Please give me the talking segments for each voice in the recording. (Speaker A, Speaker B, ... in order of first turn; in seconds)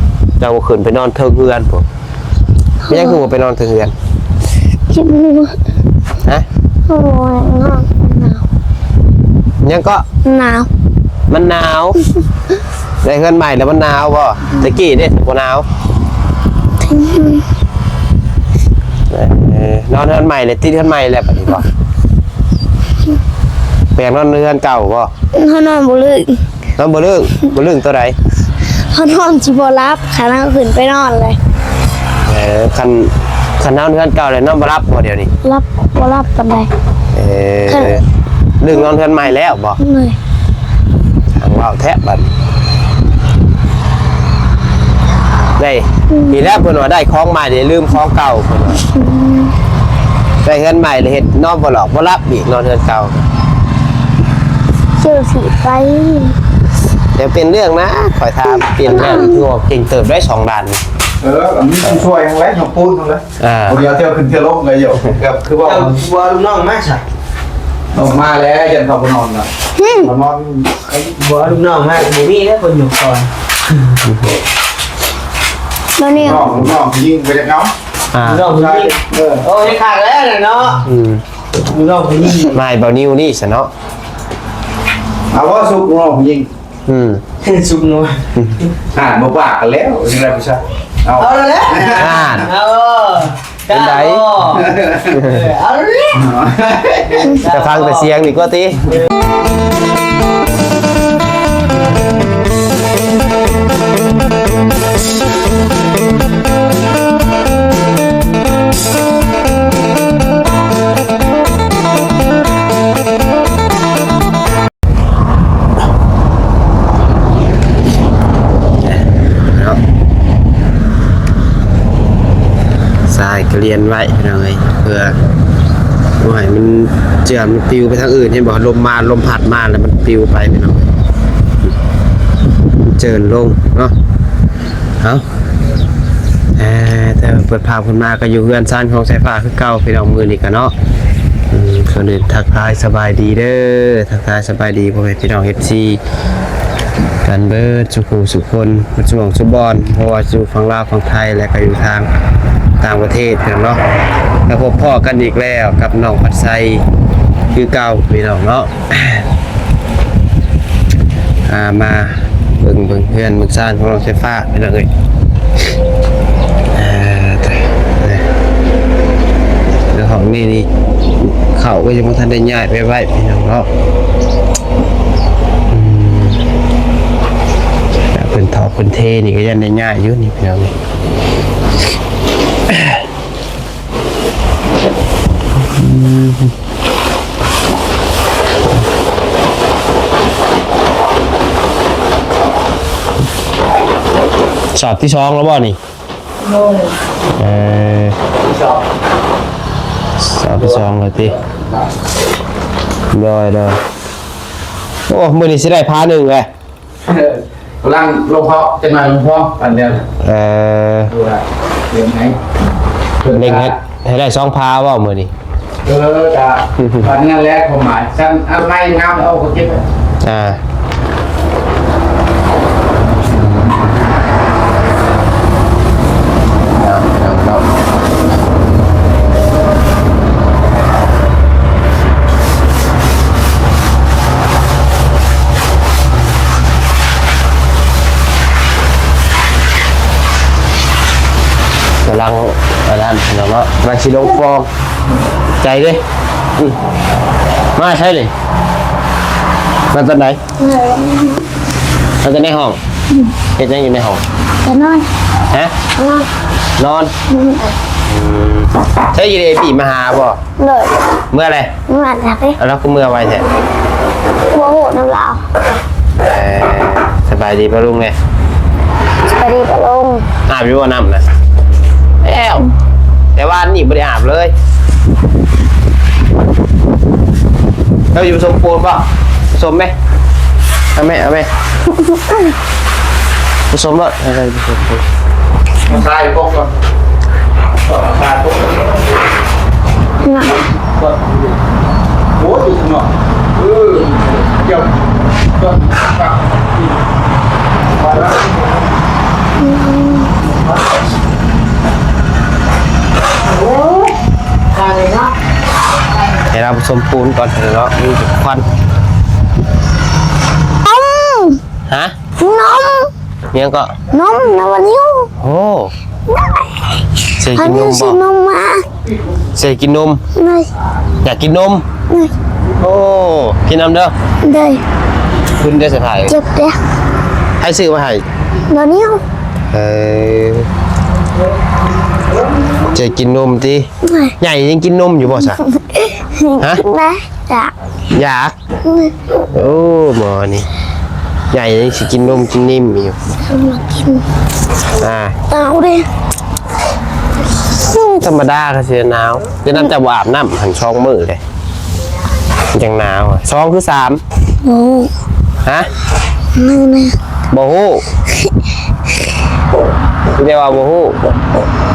Speaker A: 0.4-1.8, 2.9-3.9, 9.6-10.0, 11.3-12.0, 13.0-15.7, 19.1-21.7, 23.9-25.1, 26.8-28.1, 32.2-35.3, 37.1-38.0, 38.6-39.8, 41.3-42.3, 45.6-48.8, 50.4-53.3, 57.1-60.8, 63.4-63.8, 74.0-74.3, 76.3-76.7, 78.1-78.5, 80.8-81.2, 82.5-83.7, 86.9-87.2, 88.3-88.6, 92.0-92.5, 93.7-94.3, 95.1-95.4, 97.5-98.9, 118.8-119.8, 123.1-125.2, 126.2-130.8, 132.8-133.9, 136.6-140.7, 141.5-146.0, 147.2-152.1, 152.8-153.8, 154.5-156.8, 157.5-159.2, 161.4-164.9, 166.7-168.2, 169.9-170.7, 171.2-173.7, 175.7-176.4, 178.1-180.7, 182.7-183.0, 185.6-186.5, 194.7-195.8, 197.3-198.2, 200.2-201.3, 203.1-203.8, 205.1-206.5, 210.2-211.1, 213.3-215.3, 216.8-217.1, 220.2-220.6, 223.3-223.8, 226.8-227.6, 242.0-244.7, 245.6-246.0, 247.7-248.3, 249.9-250.4, 252.2-252.8, 253.6-254.2, 256.8-257.1, 258.1-260.4, 261.3-261.7, 262.6-263.4, 266.2-268.1, 270.5-271.2, 272.2-272.7, 273.4-274.5, 278.1-279.9, 280.9-281.5, 283.7-285.0, 306.5-308.6, 311.9-312.1, 313.5-313.9, 315.4-315.9, 317.4-318.2, 319.6-320.2, 321.2-321.8, 322.8-324.1, 325.6-326.3, 327.6-328.2, 329.7-330.7, 332.9-333.9, 334.4-335.6, 338.1-338.6, 339.5-340.7, 341.5-343.2, 345.0-345.4, 348.1-351.4, 352.7-354.2, 357.5-358.0, 360.4-361.2
Speaker B: 2.8-3.2, 4.9-5.6, 6.9-8.4, 10.2-10.7, 16.8-17.4, 25.3-26.4, 28.9-31.4, 35.4-36.7, 37.7-38.0, 39.8-40.2, 46.1-46.4, 48.8-49.5, 55.0-56.4, 58.8-59.4, 69.8-70.1, 76.0-76.5, 250.6-251.4, 254.6-255.1, 255.9-256.3, 257.3-257.7, 260.6-260.9, 261.9-262.6, 264.5-265.4, 269.2-270.2, 282.0-282.5, 290.2-290.6, 299.6-300.3, 304.8-305.2, 310.8-311.6, 312.4-313.1, 314.1-315.3, 316.3-318.8, 320.3-320.7, 324.4-324.8, 326.3-326.8, 328.7-329.2, 334.0-334.3, 335.6-337.7, 338.8-339.1, 343.4-344.2, 345.5-346.1, 347.8-348.1, 354.6-355.1, 356.5-357.2
Speaker C: 61.2-65.9, 67.9-69.5, 70.0-70.7, 76.2-77.7, 78.5-79.4, 85.3-86.5, 88.9-92.2, 94.5-95.1, 96.1-97.4, 198.4-198.8, 207.0-210.0, 211.1-212.4, 213.2-213.7, 215.8-219.8, 285.9-286.7, 287.8-289.0, 292.4-294.9, 295.5-296.8, 298.0-298.5
Speaker D: 65.6-67.0, 70.9-73.9, 78.2-80.8, 81.7-82.6, 87.4-88.7, 91.2-96.3, 97.1-98.2